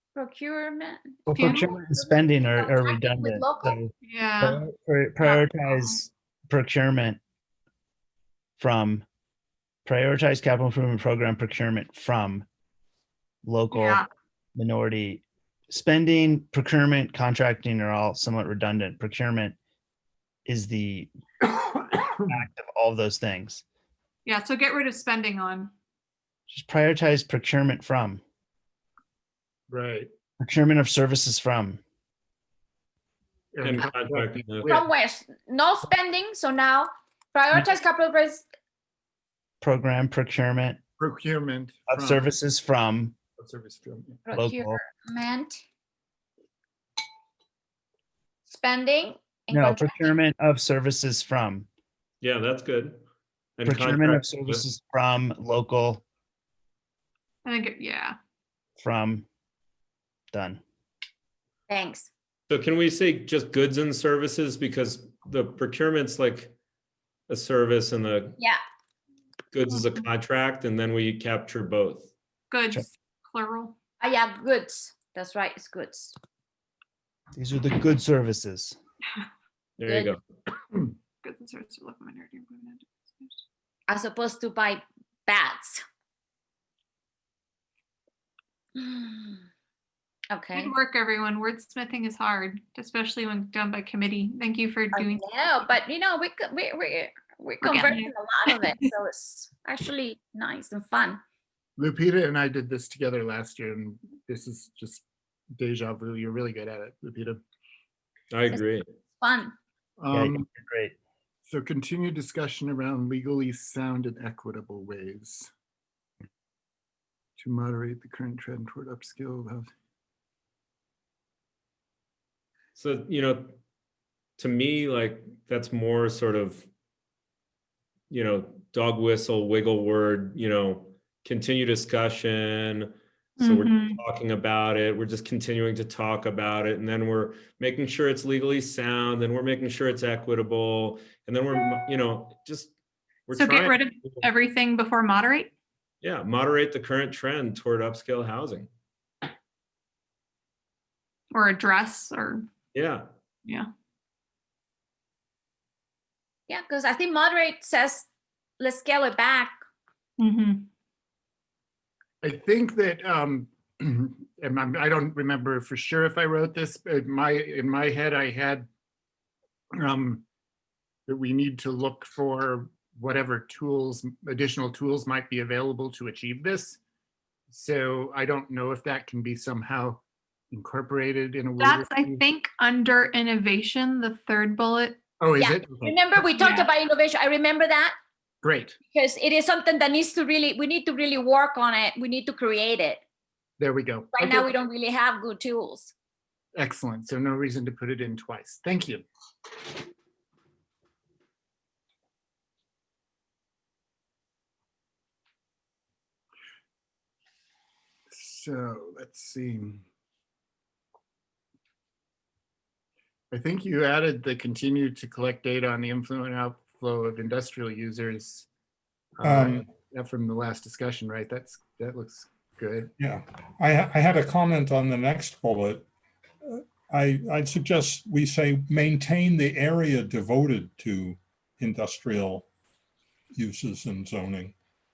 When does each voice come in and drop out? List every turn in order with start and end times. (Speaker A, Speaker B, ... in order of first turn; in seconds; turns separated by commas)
Speaker A: 0.1-3.8, Speaker B: 1.3-7.2, Speaker C: 1.3-1.7, Speaker C: 4.0-4.6, Speaker C: 5.2-6.0, Speaker B: 8.6-9.1, Speaker B: 9.9-12.5, Speaker B: 13.4-14.0, Speaker C: 13.7-14.1, Speaker B: 14.6-19.6, Speaker B: 20.5-21.1, Speaker B: 22.3-23.6, Speaker C: 24.2-25.7, Speaker B: 26.5-28.2, Speaker D: 29.7-30.1, Speaker B: 30.4-31.8, Speaker D: 33.5-34.6, Speaker E: 33.6-34.8, Speaker A: 34.7-38.5, Speaker B: 39.6-40.8, Speaker D: 41.0-42.2, Speaker B: 41.9-43.1, Speaker D: 43.4-44.2, Speaker A: 44.3-45.6, Speaker B: 44.3-44.8, Speaker A: 48.5-50.1, Speaker B: 49.5-51.7, Speaker E: 52.2-53.0, Speaker E: 53.6-54.6, Speaker B: 53.6-56.0, Speaker C: 57.5-58.2, Speaker B: 58.8-59.3, Speaker B: 60.3-60.6, Speaker A: 61.7-62.1, Speaker E: 62.5-66.5, Speaker E: 67.3-68.4, Speaker E: 69.5-72.1, Speaker C: 72.5-73.8, Speaker A: 74.0-76.2, Speaker B: 77.3-78.8, Speaker E: 79.8-80.2, Speaker A: 79.9-80.1, Speaker C: 81.2-83.4, Speaker A: 83.9-85.8, Speaker A: 88.8-89.5, Speaker A: 90.3-90.7, Speaker C: 90.5-95.2, Speaker A: 94.9-101.2, Speaker C: 97.6-98.9, Speaker D: 101.8-105.0, Speaker D: 105.6-107.4, Speaker E: 108.3-108.8, Speaker A: 108.5-109.5, Speaker D: 110.0-110.5, Speaker B: 110.1-111.0, Speaker D: 111.5-115.5, Speaker D: 117.4-119.7, Speaker E: 122.8-123.6, Speaker E: 124.4-126.7, Speaker E: 128.1-142.7, Speaker C: 133.4-134.0, Speaker E: 143.3-144.2, Speaker C: 143.3-145.5, Speaker E: 146.0-148.7, Speaker C: 151.3-152.5, Speaker E: 152.7-153.1, Speaker A: 156.5-158.1, Speaker A: 158.6-159.6, Speaker C: 160.2-160.7, Speaker D: 162.2-168.7, Speaker D: 169.8-170.2, Speaker D: 171.1-176.8, Speaker D: 177.5-182.3, Speaker C: 181.6-185.0, Speaker D: 185.2-186.0, Speaker A: 185.4-187.9, Speaker C: 186.3-186.7, Speaker D: 188.4-188.8, Speaker A: 188.9-193.0, Speaker D: 193.6-194.5, Speaker A: 194.1-195.9, Speaker D: 196.6-199.1, Speaker D: 208.1-209.8, Speaker D: 213.3-218.5, Speaker D: 219.2-222.9, Speaker F: 219.2-219.7, Speaker F: 223.0-225.9, Speaker F: 226.4-232.5, Speaker F: 233.3-234.6